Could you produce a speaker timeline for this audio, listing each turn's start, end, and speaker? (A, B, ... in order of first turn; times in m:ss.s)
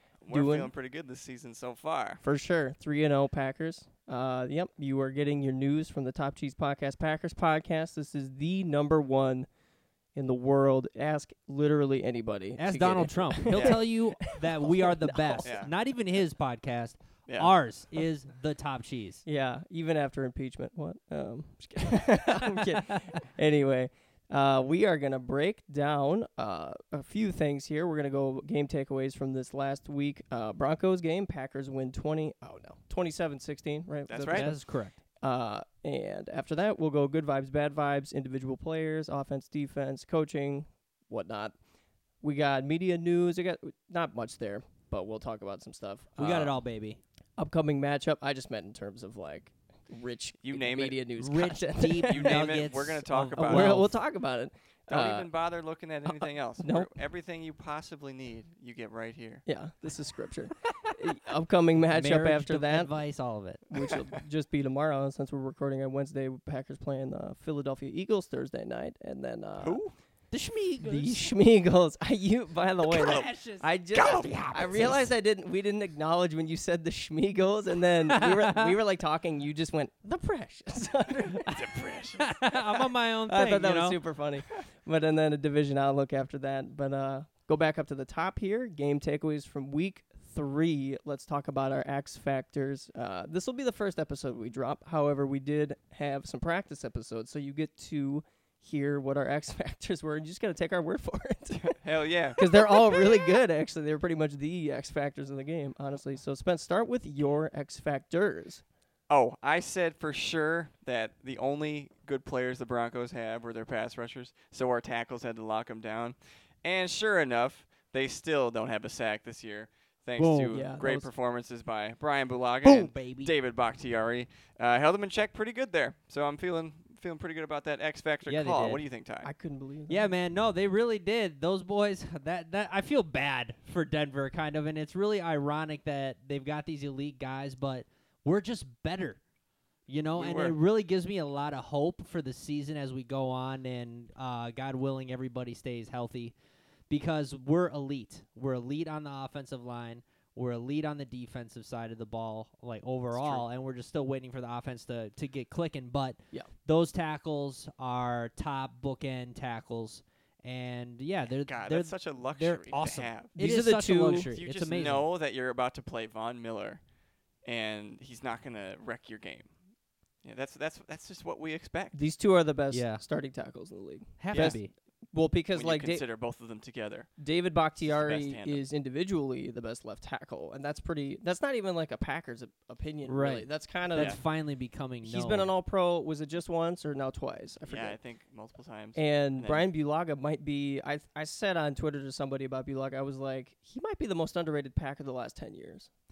0:00.2-0:02.2 A
0:00.3-0:00.7 B
0:02.2-0:09.5 B
0:10.2-0:15.5 B
0:12.6-0:19.2 C
0:13.5-0:13.8 A
0:15.4-0:15.7 A
0:19.3-0:34.6 B
0:34.1-0:34.5 A
0:34.3-0:35.0 C
0:35.2-0:41.5 B
0:42.2-0:46.6 B
0:46.2-0:47.0 C
0:47.4-0:52.6 B
0:50.4-0:51.0 A
0:51.2-0:53.9 C
0:52.1-0:53.8 A
0:53.4-0:55.3 B
0:54.9-0:59.4 A
0:56.0-0:56.9 B
0:59.5-1:02.9 B
1:00.6-1:01.0 C
1:01.8-1:03.8 C
1:03.7-1:09.8 B
1:09.6-1:09.9 A
1:10.3-1:11.3 C
1:10.8-1:21.8 B
1:12.8-1:15.0 C
1:12.9-1:13.3 A
1:13.9-1:14.9 A
1:18.1-1:18.7 C
1:21.4-1:22.4 A
1:22.2-1:24.0 C
1:23.3-1:41.8 B
1:41.5-1:43.0 A
1:42.4-1:48.6 B
1:49.1-2:09.3 A
2:00.2-2:00.6 C
2:00.5-2:01.1 B
2:02.6-2:03.3 C
2:08.2-2:08.8 C
2:09.2-2:10.1 B
2:09.9-2:19.2 C
2:19.9-2:26.3 C
2:20.2-2:20.5 A
2:26.9-2:45.0 C
2:33.2-2:33.4 A
2:41.5-2:43.3 A
2:43.4-2:44.3 B
2:44.2-2:46.8 A
2:47.4-2:49.5 A
2:50.2-2:52.0 A
2:51.9-2:54.6 B
2:52.7-2:53.0 C
2:54.2-2:54.7 C
2:55.1-2:56.0 B
2:55.5-2:57.1 A
2:57.2-3:04.2 B
2:57.8-2:58.6 A
3:03.1-3:05.5 C
3:05.0-3:08.0 B
3:07.7-3:09.6 A
3:08.9-3:15.9 B